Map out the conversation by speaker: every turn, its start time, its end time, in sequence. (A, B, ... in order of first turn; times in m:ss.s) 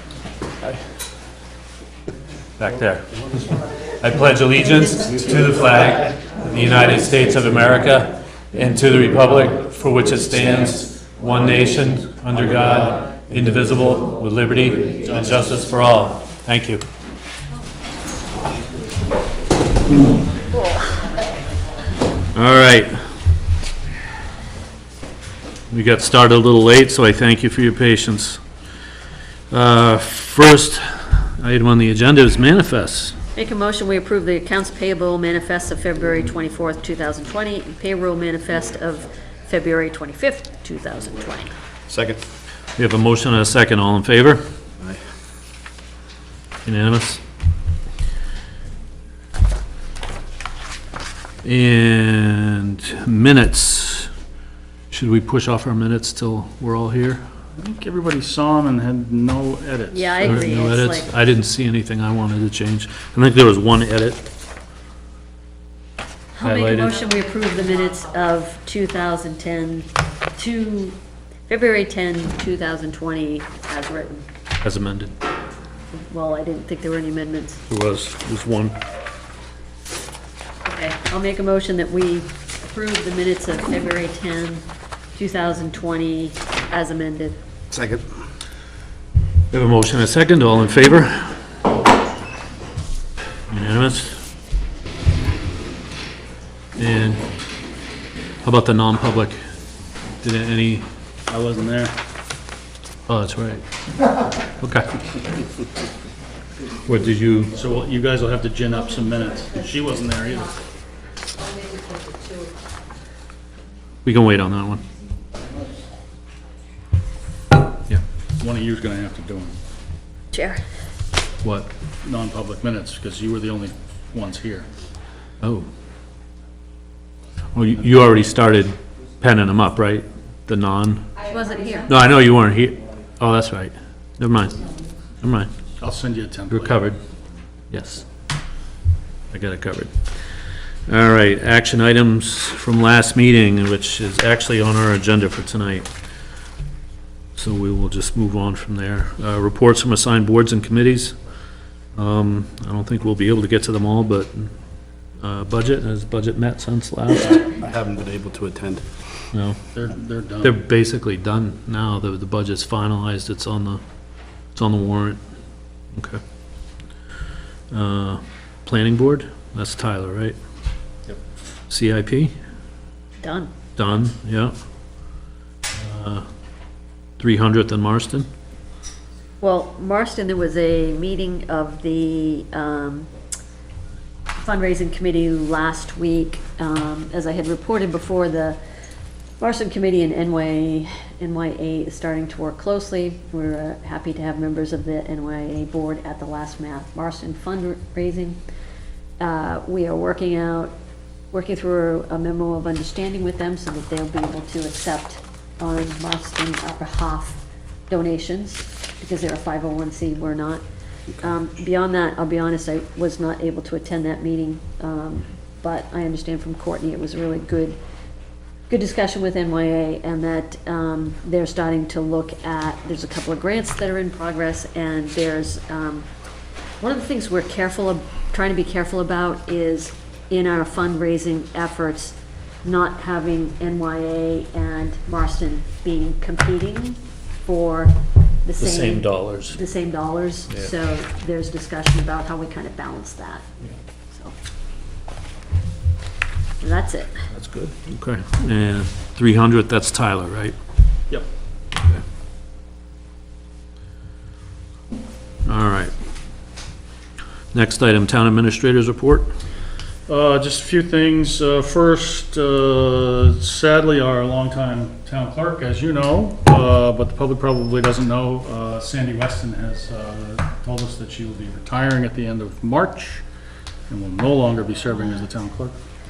0:02.6-0:03.0 A
0:04.0-0:16.8 A
0:22.4-0:23.0 A
0:25.7-0:28.4 A
0:29.5-0:33.2 A
0:33.3-0:41.5 B
0:41.9-0:42.2 C
0:42.8-0:44.4 A
0:46.6-0:47.2 A
0:51.4-0:54.1 A
0:54.9-0:57.2 A
0:57.6-1:00.3 D
0:59.9-1:01.1 B
1:00.2-1:04.2 A
1:06.3-1:11.0 B
1:06.4-1:06.9 A
1:11.5-1:14.2 B
1:14.6-1:15.2 A
1:15.9-1:17.6 B
1:17.7-1:18.7 A
1:20.7-1:24.6 B
1:25.2-1:27.4 B
1:27.7-1:28.1 C
1:29.5-1:31.4 A
1:33.5-1:34.2 A
1:36.8-1:37.2 A
1:38.4-1:39.4 A
1:40.2-1:40.9 A
1:41.3-1:41.9 D
1:43.1-1:43.6 A
1:44.6-1:44.9 A
1:46.9-1:47.5 A
1:47.5-1:50.5 D
1:54.0-1:54.8 A
1:58.4-1:59.6 D
2:00.3-2:00.6 B
2:02.0-2:04.7 D
2:05.4-2:05.7 A
2:07.6-2:11.0 A
2:11.2-2:11.9 B
2:11.9-2:14.6 A
2:15.2-2:15.5 A
2:15.8-2:16.8 D
2:16.5-2:17.0 A
2:17.7-2:18.0 A
2:19.3-2:19.9 A
2:20.9-2:25.9 A
2:27.4-2:31.2 A
2:32.0-2:34.5 A
2:35.2-2:37.6 A
2:37.6-2:38.8 C
2:39.3-2:39.6 A
2:39.7-2:40.6 D
2:40.4-2:43.8 A
2:44.6-2:45.2 A
2:45.9-2:46.2 A
2:47.7-2:50.4 A
2:51.7-2:52.3 A
2:53.2-2:53.5 B
2:53.8-2:54.5 A
2:55.8-2:56.2 A
2:57.2-2:58.3 A
2:59.4-3:03.1 B
3:04.4-3:08.6 B
3:09.4-3:18.4 B
3:19.2-3:20.7 B
3:21.3-3:30.6 B
3:31.2-3:37.8 B
3:38.7-3:46.1 B
3:46.8-4:03.4 B
3:58.6-3:59.6 A
4:06.6-4:07.3 B
4:07.3-4:10.5 A
4:15.5-4:15.9 A
4:17.5-4:19.3 A
4:20.1-4:33.2 D
4:33.9-4:35.7 D